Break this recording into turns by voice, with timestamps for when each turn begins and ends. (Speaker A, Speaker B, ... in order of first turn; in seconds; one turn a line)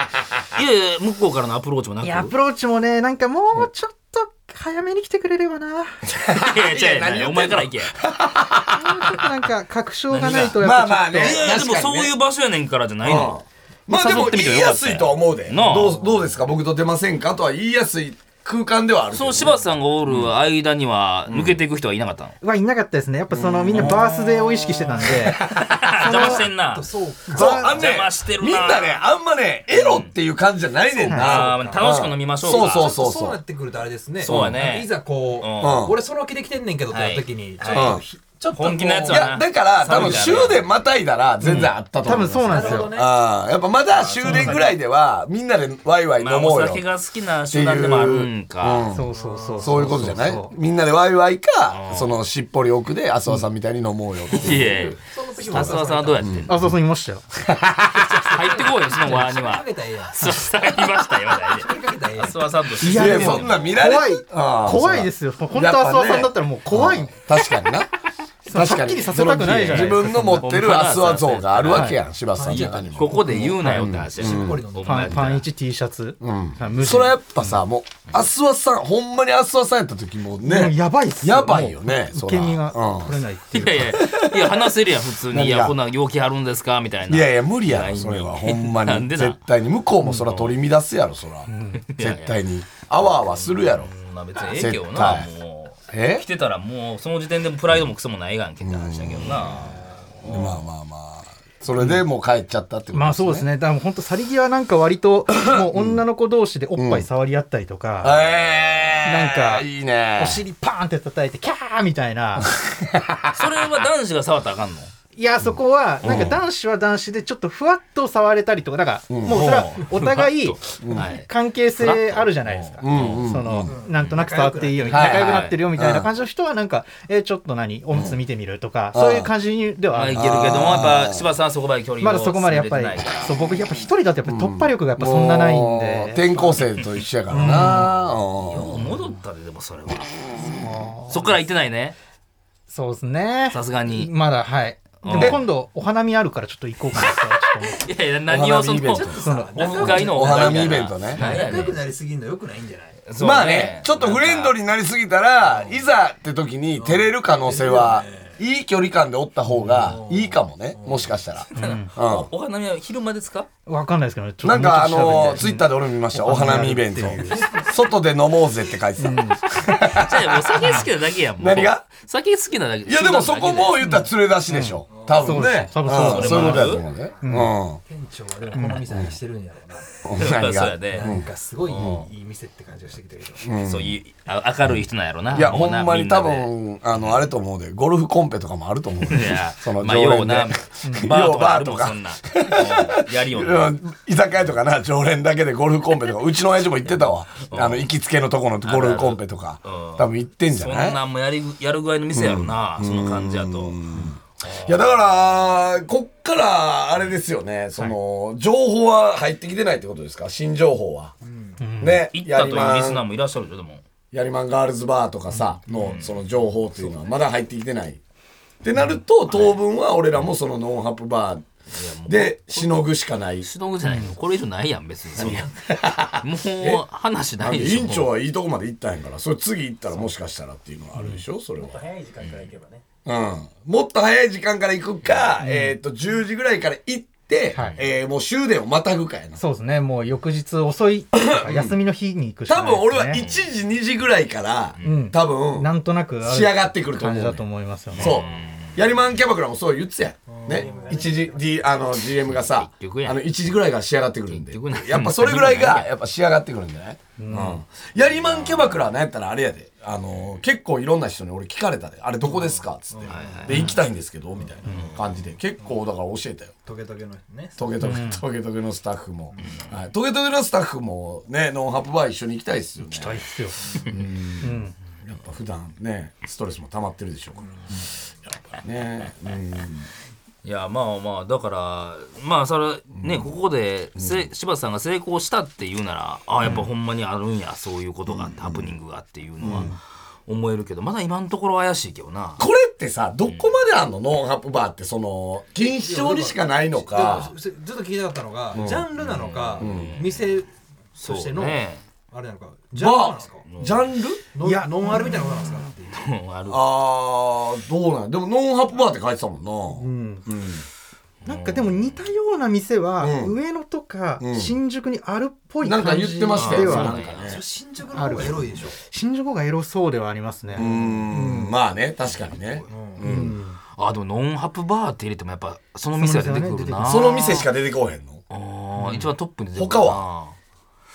Speaker A: 0.5-2.3
Speaker B: 2.0-5.9
Speaker C: 6.0-9.2
Speaker A: 6.3-7.9
Speaker B: 8.7-11.6
Speaker A: 10.1-10.6
Speaker C: 10.4-12.2
Speaker A: 11.2-13.4
Speaker C: 13.0-20.3
Speaker A: 13.9-16.0
Speaker D: 15.7-16.2
Speaker A: 19.1-22.4
Speaker C: 21.3-21.6
Speaker B: 22.4-26.5
Speaker C: 23.3-24.1
Speaker A: 23.7-26.9
Speaker C: 25.0-25.8
Speaker D: 26.1-27.6
Speaker B: 27.3-27.8
Speaker C: 27.3-33.4
Speaker A: 27.5-29.0
Speaker A: 29.7-30.1
Speaker B: 31.0-31.4
Speaker A: 31.1-32.9
Speaker D: 31.2-31.9
Speaker D: 32.4-40.6
Speaker A: 34.2-35.9
Speaker C: 34.3-34.5
Speaker C: 35.6-36.0
Speaker A: 36.9-38.0
Speaker C: 37.7-38.0
Speaker A: 38.5-40.6
Speaker C: 39.1-46.9
Speaker A: 41.4-41.7
Speaker B: 41.4-42.9
Speaker D: 42.4-43.1
Speaker A: 43.9-44.7
Speaker B: 44.2-44.6
Speaker A: 46.2-48.9
Speaker C: 47.5-54.9
Speaker B: 48.9-50.5
Speaker D: 49.1-50.0
Speaker A: 51.7-52.2
Speaker A: 54.3-56.5
Speaker D: 55.0-56.3
Speaker C: 55.5-56.7
Speaker B: 56.5-57.2
Speaker C: 57.5-58.1
Speaker D: 57.9-60.2
Speaker A: 58.2-63.7
Speaker D: 61.5-62.5
Speaker B: 62.8-67.2
Speaker C: 62.8-67.9
Speaker B: 68.4-70.5
Speaker C: 68.5-74.6
Speaker A: 69.6-71.9
Speaker B: 71.7-72.0
Speaker D: 72.3-73.4
Speaker A: 72.6-75.4
Speaker B: 73.3-73.9
Speaker D: 74.1-75.2
Speaker B: 74.8-77.6
Speaker C: 76.2-83.2
Speaker B: 80.4-84.0
Speaker A: 83.5-89.4
Speaker C: 84.0-84.7
Speaker C: 85.3-85.8
Speaker C: 87.1-93.9
Speaker A: 90.1-90.5
Speaker B: 91.5-91.8
Speaker A: 91.9-92.4
Speaker A: 93.0-100.5
Speaker C: 94.5-95.3
Speaker C: 95.9-96.2
Speaker C: 98.6-99.6
Speaker D: 99.5-99.8
Speaker C: 100.2-103.5
Speaker B: 102.9-108.2
Speaker C: 105.3-106.0
Speaker C: 106.7-107.1
Speaker C: 108.0-110.4
Speaker B: 109.0-112.5
Speaker C: 112.4-113.3
Speaker A: 113.3-114.9
Speaker B: 115.1-130.5
Speaker C: 115.4-116.4
Speaker A: 116.0-116.3
Speaker C: 119.1-119.6
Speaker A: 119.3-123.4
Speaker C: 120.8-121.1
Speaker C: 122.8-123.7
Speaker D: 123.7-125.2
Speaker A: 124.9-125.6
Speaker C: 124.9-126.1
Speaker C: 128.9-129.3
Speaker A: 129.9-133.3
Speaker C: 130.1-131.2
Speaker B: 132.0-136.6
Speaker C: 134.2-138.9
Speaker A: 136.6-137.9
Speaker B: 137.3-137.9
Speaker A: 138.5-140.5
Speaker B: 140.4-141.4
Speaker A: 141.1-141.9
Speaker B: 142.7-147.8
Speaker A: 143.5-144.1
Speaker A: 145.0-145.4
Speaker A: 147.1-151.8
Speaker C: 148.3-151.4
Speaker D: 148.9-153.0
Speaker B: 149.2-149.7
Speaker A: 153.0-154.6
Speaker C: 153.2-162.3
Speaker D: 155.4-155.8
Speaker D: 156.8-158.4
Speaker D: 159.6-161.8
Speaker B: 161.6-161.9
Speaker A: 161.9-163.5
Speaker B: 163.7-167.5
Speaker C: 164.4-170.8
Speaker B: 169.0-169.5
Speaker A: 169.9-173.9
Speaker C: 171.4-171.8
Speaker C: 172.8-177.8
Speaker B: 173.8-177.6
Speaker D: 174.9-175.3
Speaker A: 175.8-176.8
Speaker D: 177.9-180.0
Speaker B: 178.5-178.8
Speaker C: 180.0-182.1
Speaker A: 180.2-182.1
Speaker D: 180.9-183.5
Speaker C: 183.4-184.0
Speaker A: 183.6-187.2
Speaker C: 185.3-201.0
Speaker A: 189.0-193.8
Speaker B: 190.8-191.1
Speaker A: 196.8-197.9
Speaker A: 198.6-203.8
Speaker C: 202.1-211.1
Speaker D: 211.2-211.6
Speaker B: 211.6-212.0
Speaker C: 211.8-213.0
Speaker A: 212.1-213.8
Speaker C: 214.1-218.0
Speaker A: 215.7-216.2
Speaker D: 215.8-216.1
Speaker C: 218.6-221.4
Speaker A: 219.3-219.6
Speaker A: 221.7-228.1
Speaker C: 222.0-223.5
Speaker B: 223.8-224.1
Speaker C: 225.2-226.8
Speaker C: 227.4-231.9
Speaker B: 231.0-231.2
Speaker E: 231.6-232.8
Speaker A: 232.2-232.6
Speaker C: 233.0-239.4
Speaker B: 235.4-235.8
Speaker B: 237.5-237.8
Speaker B: 239.3-243.2
Speaker C: 241.1-241.8
Speaker C: 242.4-245.7
Speaker A: 243.1-243.4
Speaker A: 244.8-245.0
Speaker B: 244.8-248.2
Speaker C: 246.2-247.4
Speaker A: 247.9-248.9
Speaker C: 248.0-266.5
Speaker D: 250.3-251.2
Speaker E: 250.8-251.7
Speaker A: 252.1-253.3
Speaker A: 254.3-255.9
Speaker B: 257.2-257.6
Speaker A: 258.4-258.8
Speaker D: 262.2-263.7
Speaker A: 263.1-263.8
Speaker D: 264.4-264.8
Speaker A: 264.7-264.9
Speaker D: 266.6-267.7
Speaker C: 267.6-277.5
Speaker B: 267.8-268.2
Speaker D: 269.3-269.6
Speaker B: 272.8-273.6
Speaker B: 274.4-274.7
Speaker C: 278.6-279.9
Speaker A: 280.4-289.8
Speaker C: 283.0-283.3
Speaker C: 283.9-284.3
Speaker C: 286.4-286.7
Speaker C: 288.1-288.7
Speaker C: 289.4-289.7
Speaker B: 289.4-289.8
Speaker A: 290.3-292.4
Speaker C: 292.4-297.3
Speaker A: 293.2-293.6
Speaker D: 295.7-303.5
Speaker C: 298.5-298.9
Speaker A: 298.9-300.3
Speaker C: 299.6-299.9
Speaker A: 300.9-301.8
Speaker C: 302.8-304.2
Speaker A: 303.4-303.9
Speaker D: 304.3-306.0
Speaker B: 304.4-305.6
Speaker A: 305.9-306.6
Speaker C: 306.4-310.6
Speaker B: 309.7-310.2
Speaker A: 311.2-312.0
Speaker B: 311.2-316.9
Speaker C: 313.0-313.4
Speaker C: 314.2-314.6
Speaker C: 315.6-317.4
Speaker A: 316.3-317.4
Speaker D: 317.2-318.8
Speaker B: 317.9-321.5
Speaker C: 320.5-323.4
Speaker A: 322.2-322.6
Speaker D: 322.7-323.0
Speaker B: 323.0-323.6
Speaker A: 323.8-327.5
Speaker B: 325.9-327.1
Speaker C: 326.8-328.2
Speaker A: 328.3-330.4
Speaker B: 328.8-329.1
Speaker C: 329.5-330.0